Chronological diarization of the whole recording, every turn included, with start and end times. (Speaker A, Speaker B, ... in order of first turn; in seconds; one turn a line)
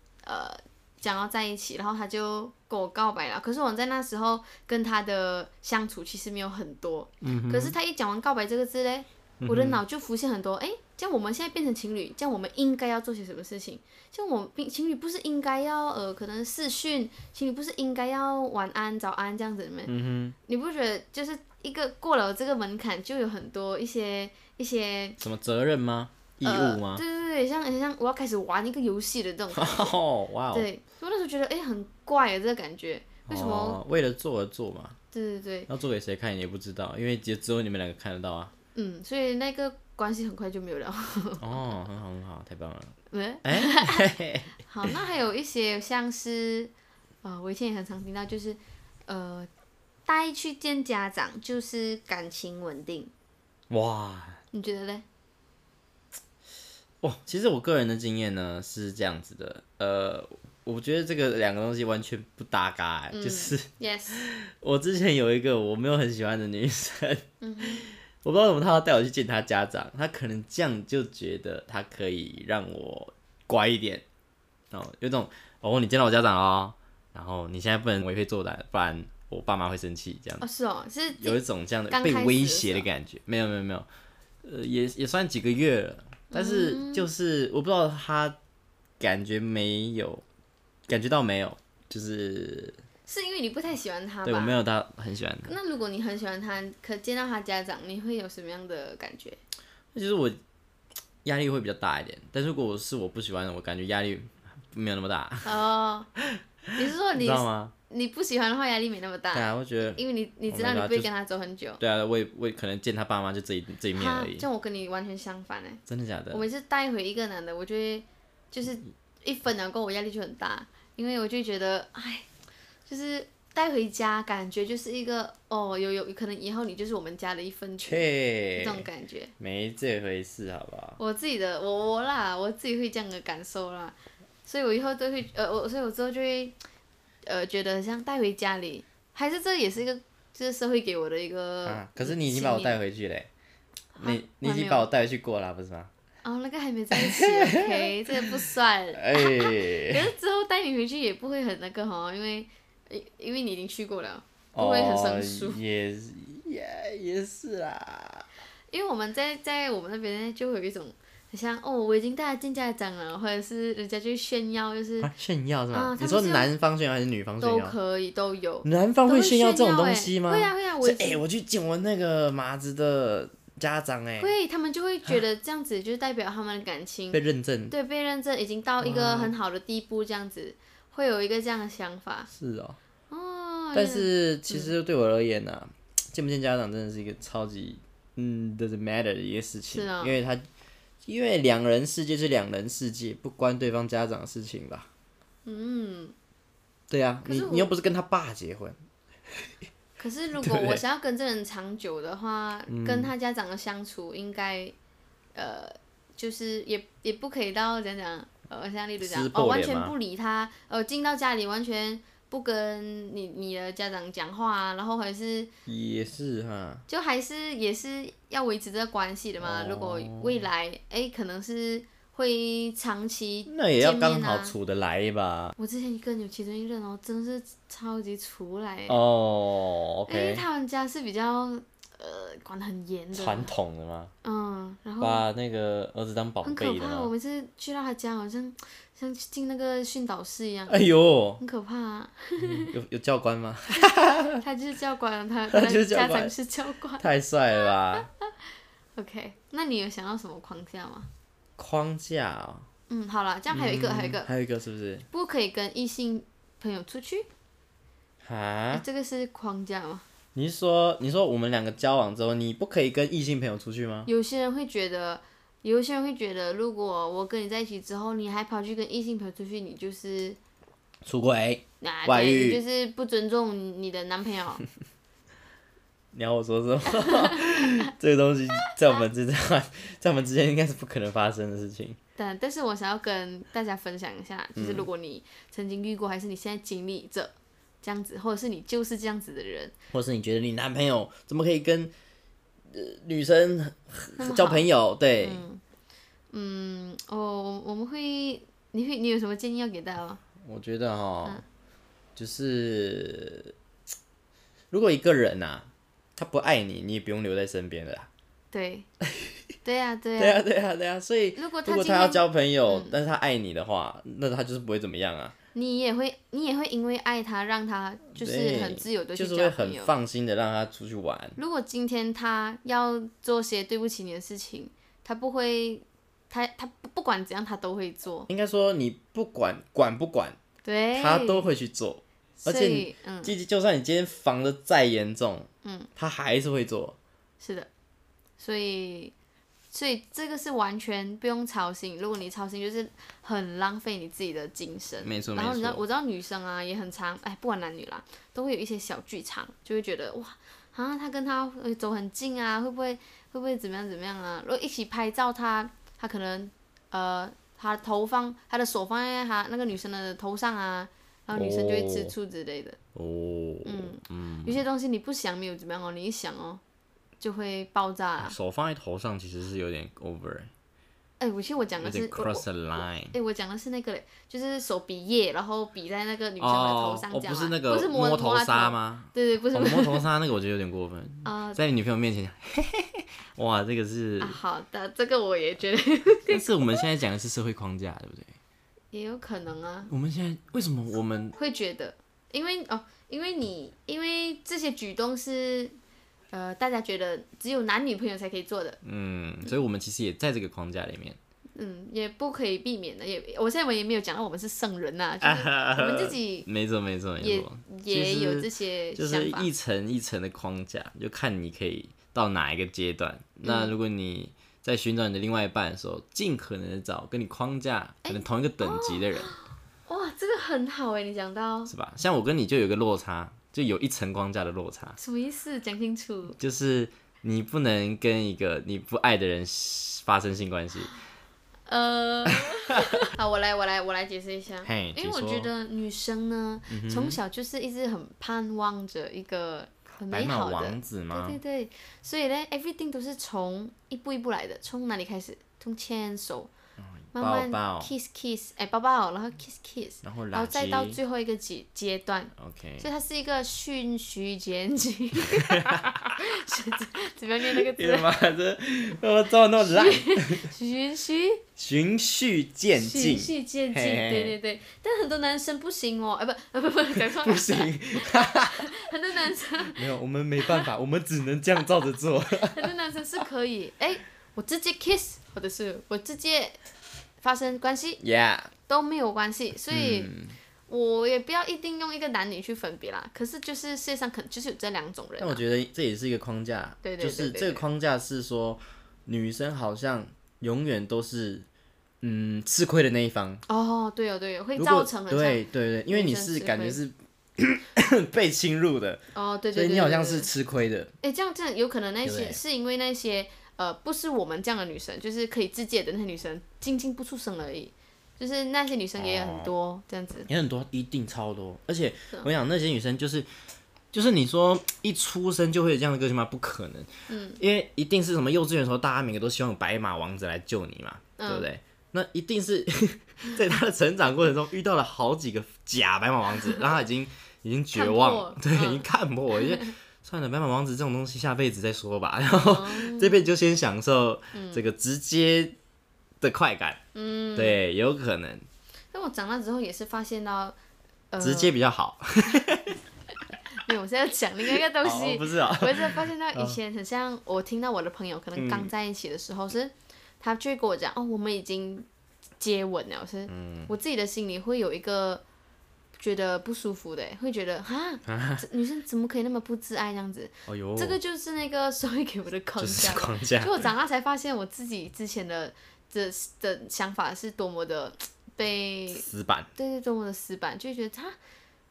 Speaker A: 0.2-19.9
Speaker B: 7.2-7.8
Speaker B: 9.4-9.8
Speaker B: 19.9-20.4
Speaker A: 20.4-25.2
Speaker B: 25.2-27.0
Speaker A: 26.4-29.9
Speaker B: 29.5-30.7
Speaker A: 30.5-33.8
Speaker B: 33.3-35.0
Speaker A: 35.1-35.7
Speaker B: 35.7-38.5
Speaker A: 38.7-41.7
Speaker B: 41.4-44.9
Speaker A: 43.1-44.1
Speaker A: 44.6-46.7
Speaker A: 47.2-49.5
Speaker A: 50.0-53.1
Speaker B: 53.7-54.4
Speaker A: 54.5-55.0
Speaker B: 57.0-74.0
Speaker A: 63.1-64.2
Speaker A: 67.4-67.9
Speaker B: 74.7-80.4
Speaker A: 80.4-82.9
Speaker B: 81.2-83.9
Speaker B: 84.4-88.4
Speaker A: 86.3-87.1
Speaker B: 89.0-90.2
Speaker B: 90.9-92.8
Speaker A: 93.1-94.6
Speaker B: 94.2-95.5
Speaker A: 95.5-99.4
Speaker B: 99.9-100.4
Speaker B: 101.2-105.5
Speaker A: 105.4-106.1
Speaker A: 106.7-111.8
Speaker B: 107.1-107.7
Speaker B: 109.3-111.1
Speaker B: 111.8-114.5
Speaker A: 113.9-122.3
Speaker B: 115.9-116.4
Speaker A: 122.9-129.3
Speaker B: 127.8-128.9
Speaker B: 129.4-131.0
Speaker A: 131.0-136.5
Speaker A: 137.2-142.8
Speaker B: 141.7-143.3
Speaker A: 144.0-144.9
Speaker B: 144.0-145.9
Speaker A: 146.2-155.6
Speaker B: 146.9-148.3
Speaker B: 148.9-150.1
Speaker B: 154.5-158.3
Speaker A: 158.7-165.1
Speaker B: 165.0-167.7
Speaker A: 165.7-166.5
Speaker A: 167.4-171.2
Speaker B: 168.6-174.3
Speaker A: 174.2-182.3
Speaker B: 177.1-177.7
Speaker B: 178.8-179.3
Speaker B: 182.3-182.8
Speaker A: 183.1-184.7
Speaker B: 183.7-190.4
Speaker A: 189.7-190.2
Speaker B: 191.0-194.9
Speaker A: 195.4-196.1
Speaker B: 196.9-198.8
Speaker A: 197.2-197.7
Speaker A: 200.0-204.7
Speaker B: 200.4-200.8
Speaker B: 202.7-203.1
Speaker A: 205.3-215.5
Speaker B: 209.0-209.9
Speaker B: 215.7-216.8
Speaker A: 216.9-224.5
Speaker B: 219.4-220.4
Speaker B: 223.5-225.6
Speaker A: 225.6-229.0
Speaker B: 228.9-230.4
Speaker A: 230.1-233.5
Speaker B: 233.1-234.1
Speaker A: 234.2-235.2
Speaker B: 235.0-237.1
Speaker A: 236.4-240.8
Speaker B: 240.7-241.4
Speaker A: 241.4-242.7
Speaker B: 242.4-244.4
Speaker A: 243.7-247.0
Speaker B: 245.5-246.3
Speaker B: 247.0-248.1
Speaker A: 247.9-248.3
Speaker A: 249.0-251.1
Speaker B: 251.6-252.7
Speaker A: 252.9-254.3
Speaker B: 253.5-255.1
Speaker A: 255.1-257.3
Speaker B: 258.2-258.8
Speaker A: 258.7-260.0
Speaker B: 260.3-264.1
Speaker A: 264.1-270.4
Speaker B: 271.0-272.6
Speaker A: 271.8-274.6
Speaker B: 276.1-282.0
Speaker A: 276.9-277.8
Speaker A: 282.2-289.7
Speaker B: 284.6-284.9
Speaker B: 289.9-291.9
Speaker B: 292.7-295.4
Speaker A: 294.2-294.7
Speaker A: 295.2-295.6
Speaker A: 296.3-300.2
Speaker B: 300.4-301.4
Speaker B: 302.1-303.5
Speaker B: 304.7-308.1
Speaker A: 308.5-308.9
Speaker A: 309.6-310.4
Speaker B: 310.2-315.3
Speaker A: 311.4-312.9
Speaker A: 315.5-319.9
Speaker B: 318.1-321.4
Speaker A: 321.4-328.3
Speaker B: 328.3-330.4
Speaker A: 330.6-331.5
Speaker B: 330.9-337.0
Speaker A: 332.4-333.3
Speaker A: 335.6-335.9
Speaker A: 337.4-337.7
Speaker A: 338.4-339.1
Speaker A: 339.7-362.8
Speaker B: 345.0-345.8
Speaker B: 361.3-362.1
Speaker B: 362.9-364.6
Speaker A: 363.6-366.6
Speaker A: 367.2-368.3
Speaker B: 368.2-370.5
Speaker A: 371.2-372.4
Speaker B: 371.8-373.1
Speaker A: 373.1-380.0
Speaker B: 376.4-384.4
Speaker A: 381.2-381.6
Speaker A: 384.2-386.8
Speaker B: 386.3-388.4
Speaker A: 388.9-389.9
Speaker B: 389.9-391.4
Speaker A: 391.4-395.8
Speaker A: 396.3-398.8
Speaker B: 398.8-401.2
Speaker A: 401.6-406.5
Speaker B: 405.2-419.3
Speaker A: 407.2-409.5
Speaker A: 413.4-413.7
Speaker A: 418.0-421.7
Speaker B: 421.7-425.0
Speaker A: 425.0-426.4
Speaker B: 426.4-430.9
Speaker A: 431.7-446.5
Speaker B: 432.4-433.1
Speaker B: 434.6-435.5
Speaker B: 436.7-437.2
Speaker B: 440.1-441.4
Speaker B: 446.8-447.9
Speaker A: 447.1-458.1
Speaker B: 450.0-451.0
Speaker B: 452.4-452.9
Speaker B: 455.4-456.1
Speaker B: 457.5-460.5
Speaker A: 459.6-461.4
Speaker B: 461.6-464.4
Speaker A: 462.7-469.8
Speaker B: 466.9-468.7
Speaker B: 469.7-472.7
Speaker A: 472.5-476.6
Speaker A: 477.2-478.0
Speaker B: 478.0-478.5
Speaker A: 478.7-480.1
Speaker B: 479.7-480.4
Speaker A: 480.7-485.4
Speaker B: 485.2-491.4
Speaker A: 486.8-487.6
Speaker B: 492.0-493.4
Speaker A: 493.5-496.8
Speaker B: 494.6-499.0
Speaker A: 499.1-500.3
Speaker B: 499.5-500.9
Speaker A: 501.0-510.3
Speaker B: 502.0-502.4
Speaker B: 509.0-509.5
Speaker B: 510.3-513.3
Speaker B: 513.9-535.5
Speaker A: 517.1-517.4
Speaker A: 521.2-521.5
Speaker A: 527.7-529.7
Speaker A: 532.4-533.3
Speaker A: 534.3-534.7
Speaker B: 536.2-536.8
Speaker A: 536.9-537.6
Speaker B: 537.4-538.5
Speaker A: 538.9-540.5
Speaker A: 541.1-541.5
Speaker B: 541.2-542.8
Speaker A: 543.6-551.9
Speaker B: 544.5-546.6
Speaker B: 548.3-548.7
Speaker A: 552.4-555.2
Speaker B: 553.3-553.7
Speaker A: 556.0-571.1
Speaker B: 558.1-558.4
Speaker B: 560.5-561.0
Speaker B: 562.6-563.7
Speaker B: 568.9-569.5